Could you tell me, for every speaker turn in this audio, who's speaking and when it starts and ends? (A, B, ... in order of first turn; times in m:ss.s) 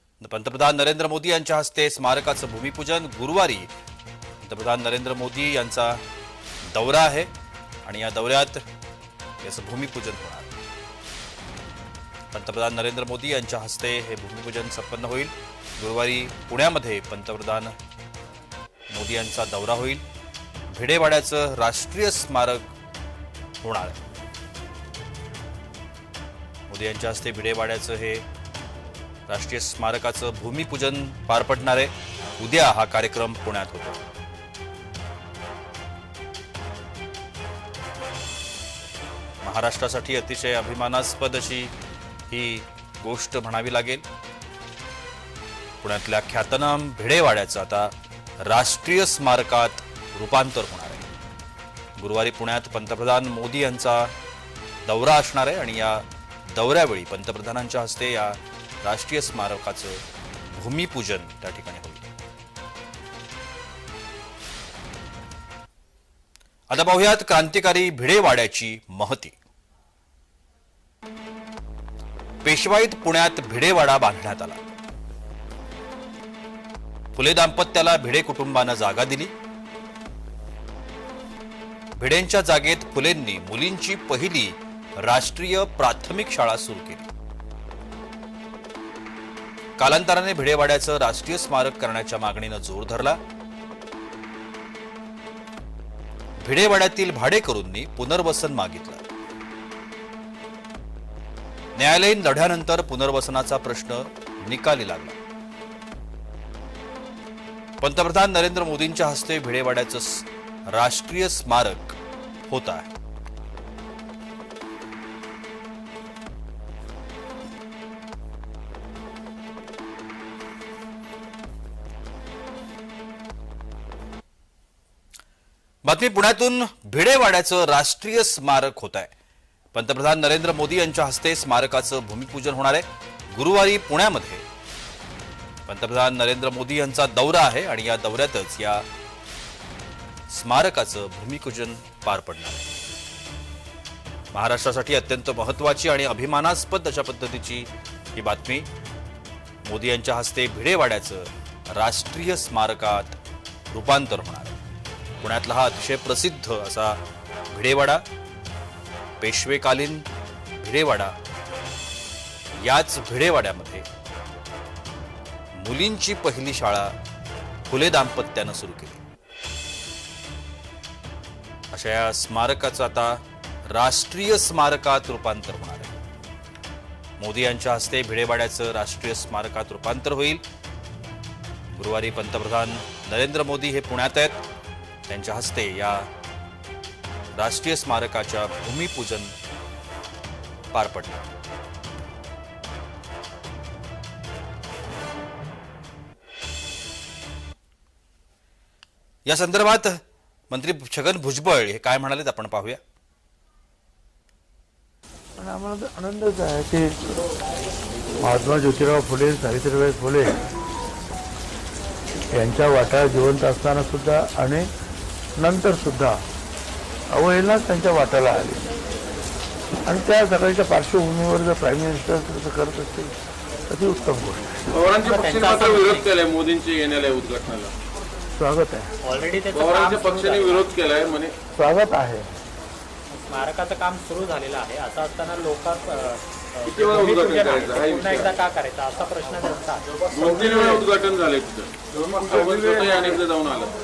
0:00.2-0:03.7 A
0:04.4-0:06.0 A
0:06.7-0:07.3 A
0:07.9-0:08.6 A
0:09.4-0:10.5 A
0:12.3-0:17.8 A
0:18.9-0:20.0 A
0:20.7-0:22.7 A
0:23.6-0:24.0 A
0:26.7-0:28.2 A
0:29.3-0:34.0 A
0:39.4-0:41.7 A
0:42.3-0:44.0 A
0:45.8-0:51.0 A
0:52.0-0:54.1 A
0:54.9-1:02.1 A
1:06.7-1:09.4 A
1:12.4-1:14.6 A
1:17.1-1:19.3 A
1:22.0-1:27.1 A
1:29.8-1:33.2 A
1:36.4-1:39.0 A
1:41.8-1:45.2 A
1:47.8-1:52.9 A
2:05.8-2:09.1 A
2:09.7-2:14.4 A
2:15.7-2:18.8 A
2:20.3-2:22.7 A
2:24.3-2:28.7 A
2:29.6-2:33.2 A
2:33.7-2:34.6 A
2:35.2-2:37.0 A
2:37.5-2:38.0 A
2:39.2-2:40.1 A
2:40.6-2:41.2 A
2:42.6-2:43.8 A
2:45.6-2:46.9 A
2:47.7-2:49.0 A
2:51.7-2:56.0 A
2:57.2-3:00.4 A
3:01.8-3:04.4 A
3:05.1-3:06.1 A
3:07.3-3:09.3 A
3:10.7-3:11.2 A
3:19.2-3:22.8 A
3:25.4-3:27.0 B
3:28.2-3:30.4 B
3:32.3-3:34.7 B
3:35.4-3:36.2 B
3:37.1-3:38.7 B
3:39.9-3:43.2 B
3:43.7-3:44.8 B
3:44.7-3:47.7 C
3:45.0-3:46.1 D
3:48.3-3:48.9 B
3:49.0-3:50.7 D
3:49.5-3:51.3 C
3:51.6-3:52.4 B
3:53.1-4:00.1 D
3:56.7-3:58.4 C
4:00.1-4:03.7 C
4:00.2-4:00.9 B
4:02.1-4:03.2 B